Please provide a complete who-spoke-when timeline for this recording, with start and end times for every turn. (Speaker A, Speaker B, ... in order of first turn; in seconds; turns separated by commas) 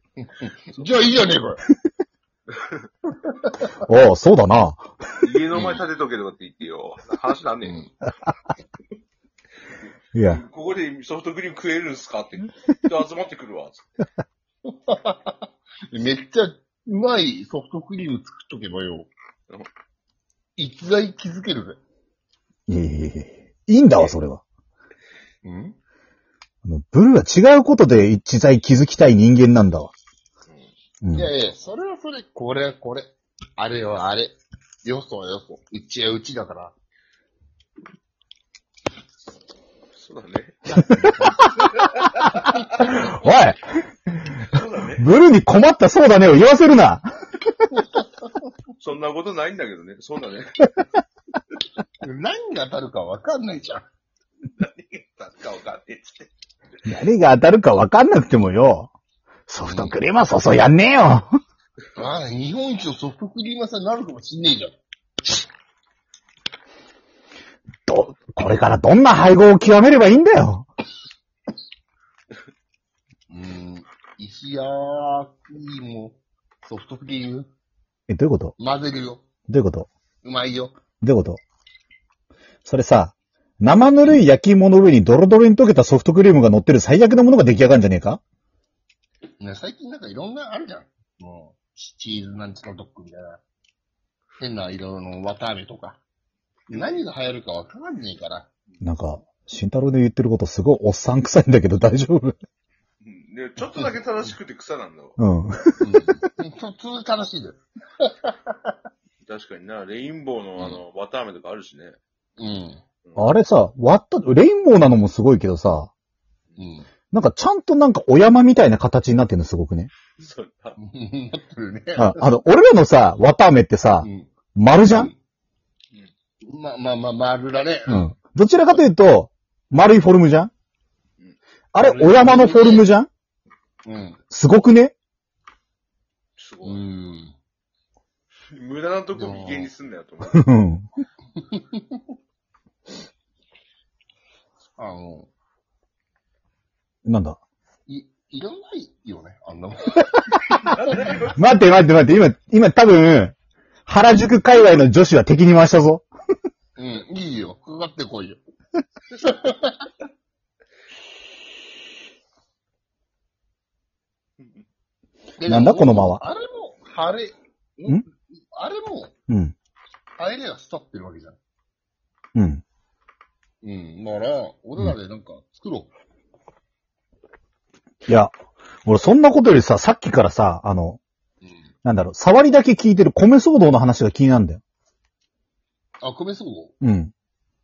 Speaker A: 0.2-1.6, Speaker B: 2.5-2.9, Speaker A: 3.2-3.7, Speaker C: 3.8-4.9, Speaker B: 5.2-7.9, Speaker A: 5.5-5.8, Speaker A: 7.6-7.9, Speaker C: 10.1-10.4, Speaker B: 10.2-13.8, Speaker A: 14.6-19.1, Speaker A: 20.6-21.8, Speaker C: 22.7-24.4, Speaker A: 25.4-25.8, Speaker C: 26.6-29.9, Speaker C: 31.0-31.3, Speaker A: 31.1-36.7, Speaker B: 39.9-40.8, Speaker A: 40.7-41.5, Speaker C: 41.0-41.7, Speaker B: 41.6-43.2, Speaker C: 42.6-44.4, Speaker B: 44.4-45.1, Speaker C: 45.0-47.1, Speaker A: 47.7-48.5, Speaker B: 48.8-50.7, Speaker A: 52.0-53.9, Speaker B: 54.6-56.3, Speaker C: 56.9-58.9, Speaker C: 59.5-61.3, Speaker A: 59.6-59.9, Speaker A: 62.0-64.8, Speaker C: 67.8-70.7, Speaker A: 73.3-77.5, Speaker C: 78.1-78.5, Speaker A: 78.6-79.2, Speaker C: 79.5-79.9, Speaker A: 80.2-80.7, Speaker C: 81.0-81.4, Speaker C: 82.6-88.2, Speaker A: 89.4-93.4, Speaker A: 94.4-96.0, Speaker A: 96.7-98.5, Speaker B: 96.7-97.0, Speaker C: 98.8-102.3, Speaker B: 103.0-105.2, Speaker C: 105.2-106.1, Speaker A: 105.8-108.5, Speaker B: 109.2-112.0, Speaker A: 112.4-112.8, Speaker B: 113.0-113.3, Speaker C: 113.2-115.9, Speaker A: 116.6-116.9, Speaker C: 117.1-119.9, Speaker B: 120.2-120.8, Speaker A: 120.8-122.2, Speaker C: 122.0-125.1, Speaker A: 124.0-124.3, Speaker A: 124.8-125.2, Speaker A: 126.4-128.1, Speaker C: 127.9-130.5, Speaker C: 131.7-133.1, Speaker A: 131.8-132.9, Speaker A: 133.8-134.2, Speaker C: 134.3-134.9, Speaker B: 136.4-136.8, Speaker A: 136.6-137.3, Speaker B: 138.5-140.4, Speaker A: 139.1-139.7, Speaker C: 140.3-140.8, Speaker A: 141.3-142.0, Speaker A: 144.8-145.3, Speaker C: 147.0-147.4, Speaker A: 147.9-150.7, Speaker C: 150.3-153.3, Speaker B: 150.6-151.6, Speaker C: 153.8-156.1, Speaker A: 156.8-158.4, Speaker A: 159.1-159.9, Speaker A: 165.4-169.1, Speaker C: 165.5-166.2, Speaker C: 169.3-169.5, Speaker A: 170.2-171.4, Speaker C: 172.3-172.6, Speaker A: 173.6-175.9, Speaker C: 178.1-178.3, Speaker C: 178.8-181.0, Speaker C: 181.8-184.6, Speaker A: 186.0-186.7, Speaker C: 186.8-187.1